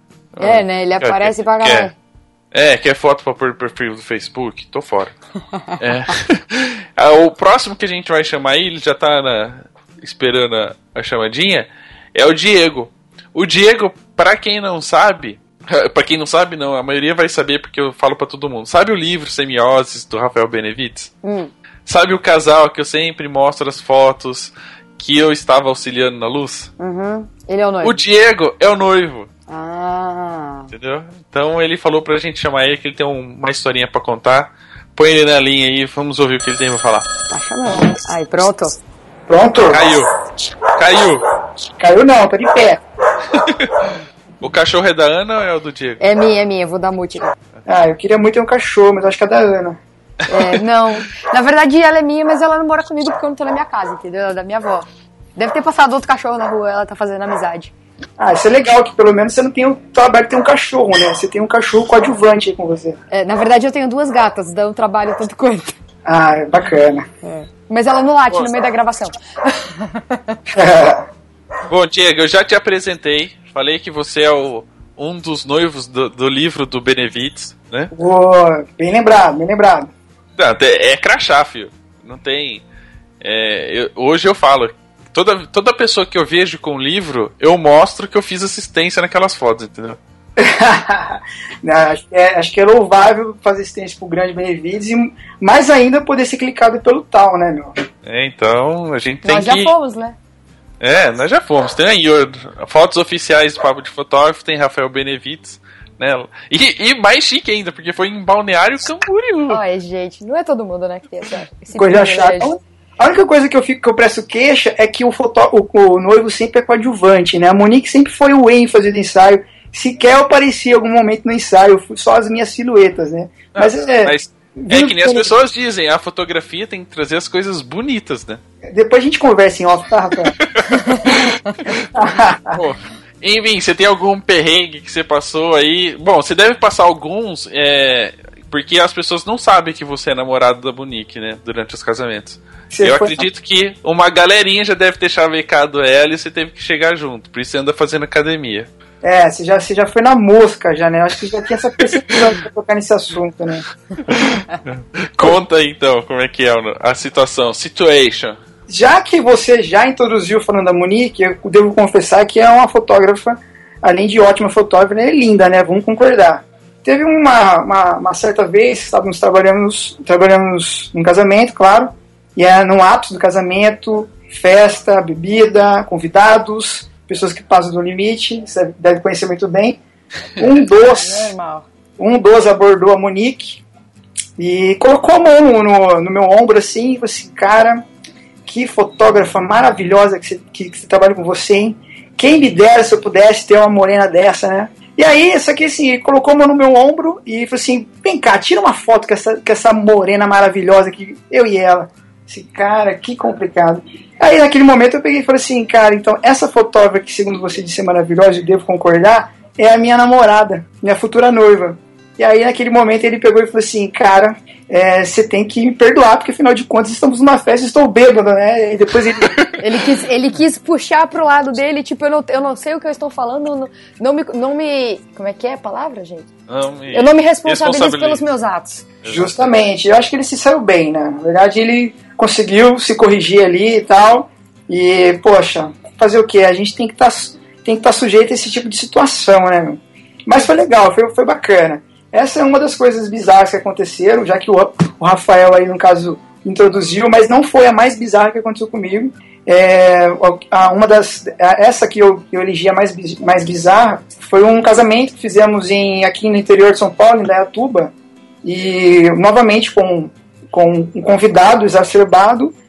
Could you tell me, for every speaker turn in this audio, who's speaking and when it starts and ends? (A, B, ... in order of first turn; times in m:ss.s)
0:00.3-0:01.9 A
0:00.4-0:01.9 B
0:02.5-0:05.1 A
0:05.8-0:21.1 A
0:21.2-0:21.5 B
0:21.8-0:26.7 A
0:26.8-0:28.0 B
0:27.8-0:29.3 A
0:29.5-0:30.7 B
0:30.7-0:37.0 A
0:37.3-0:38.8 B
0:39.3-0:40.0 C
0:39.6-0:40.1 A
0:40.6-0:41.2 A
0:41.8-0:42.8 C
0:43.4-0:43.8 A
0:44.4-0:46.0 A
0:46.0-0:47.3 B
0:47.7-0:49.8 C
0:50.3-0:57.7 B
0:58.2-1:03.0 C
1:03.1-1:05.8 B
1:06.0-1:07.0 C
1:07.2-1:10.4 B
1:10.5-1:11.1 C
1:11.7-1:17.9 A
1:17.9-1:19.9 C
1:20.4-1:22.6 A
1:23.2-1:30.0 A
1:30.4-1:37.7 C
1:38.0-1:39.7 A
1:39.2-1:40.2 B
1:40.8-1:49.6 A
1:49.5-1:52.5 B
1:51.8-2:05.3 C
2:03.5-2:08.4 A
2:08.7-2:10.4 C
2:10.4-2:11.8 A
2:11.9-2:12.6 C
2:12.5-2:28.7 A
2:22.7-2:23.2 C
2:29.0-2:33.6 C
2:34.1-2:38.4 A
2:38.7-2:59.8 C
3:00.4-3:01.3 C
3:00.8-3:01.6 B
3:02.0-3:03.6 C
3:04.4-3:07.8 C
3:08.4-3:39.3 C
3:39.6-3:46.3 B
3:46.5-3:48.2 A
3:46.9-3:48.8 B
3:49.0-3:49.6 A
3:49.0-4:17.9 C
4:18.4-4:22.5 C